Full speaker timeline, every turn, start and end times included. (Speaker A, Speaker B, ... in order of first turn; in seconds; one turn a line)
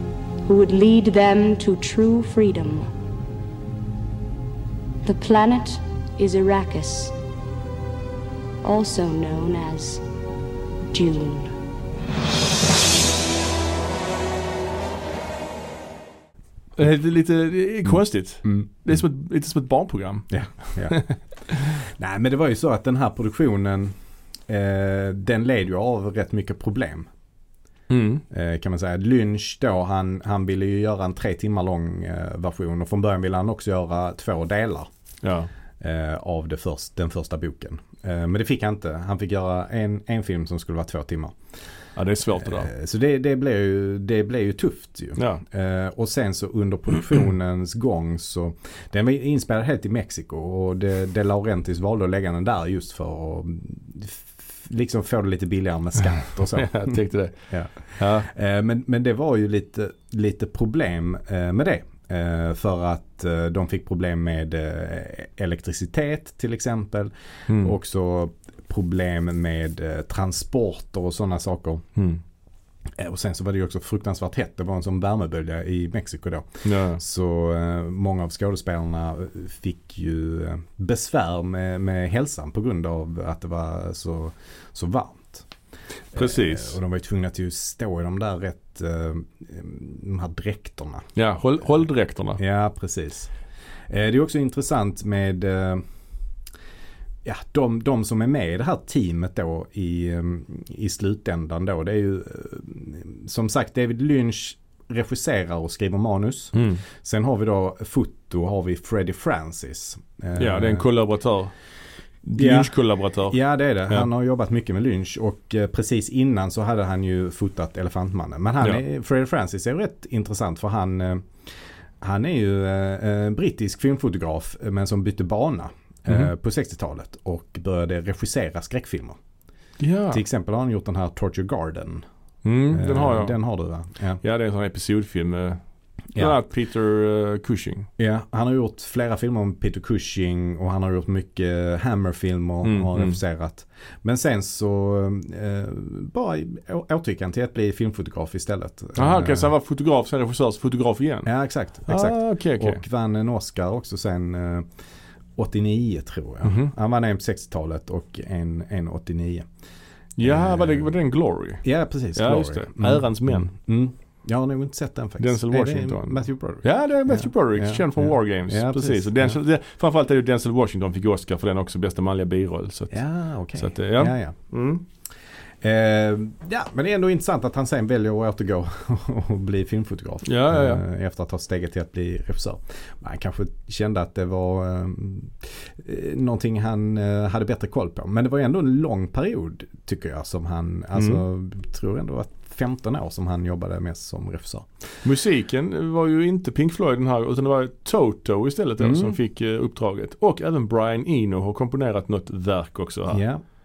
Speaker A: 0.5-2.9
Speaker A: 5.0-7.1
Speaker A: 8.6-10.0
Speaker A: 10.9-11.5
Speaker B: 16.8-21.8
Speaker C: 20.3-21.0
Speaker C: 21.8-23.9
Speaker C: 24.5-27.1
Speaker B: 27.9-28.2
Speaker C: 28.3-34.9
Speaker B: 35.2-35.5
Speaker C: 35.8-41.4
Speaker B: 42.0-42.7
Speaker C: 42.4-57.0
Speaker B: 45.2-45.4
Speaker B: 56.5-57.4
Speaker C: 57.5-71.9
Speaker B: 57.9-58.3
Speaker B: 67.5-67.8
Speaker B: 72.0-72.2
Speaker C: 73.0-85.5
Speaker B: 76.6-77.0
Speaker C: 86.1-91.1
Speaker B: 86.1-86.8
Speaker B: 91.2-92.4
Speaker C: 92.4-93.3
Speaker C: 93.9-95.8
Speaker C: 97.2-110.9
Speaker B: 106.5-106.8
Speaker B: 110.4-111.5
Speaker B: 112.2-113.4
Speaker C: 112.4-112.7
Speaker C: 113.3-121.3
Speaker C: 122.0-129.2
Speaker B: 129.8-130.2
Speaker C: 130.1-132.1
Speaker B: 132.4-133.4
Speaker C: 132.7-134.2
Speaker B: 134.2-135.6
Speaker B: 136.2-137.9
Speaker C: 138.0-149.5
Speaker B: 142.6-143.2
Speaker B: 149.0-151.3
Speaker C: 151.3-154.7
Speaker B: 151.9-152.8
Speaker C: 155.4-159.5
Speaker B: 156.4-156.7
Speaker B: 160.2-161.6
Speaker C: 160.2-160.9
Speaker C: 161.6-169.4
Speaker B: 162.2-163.5
Speaker B: 165.2-173.0
Speaker C: 172.9-174.4
Speaker B: 173.6-174.8
Speaker C: 175.6-194.7
Speaker B: 180.2-180.8
Speaker B: 190.9-191.2
Speaker B: 195.0-203.2
Speaker C: 198.8-199.2
Speaker C: 203.1-203.4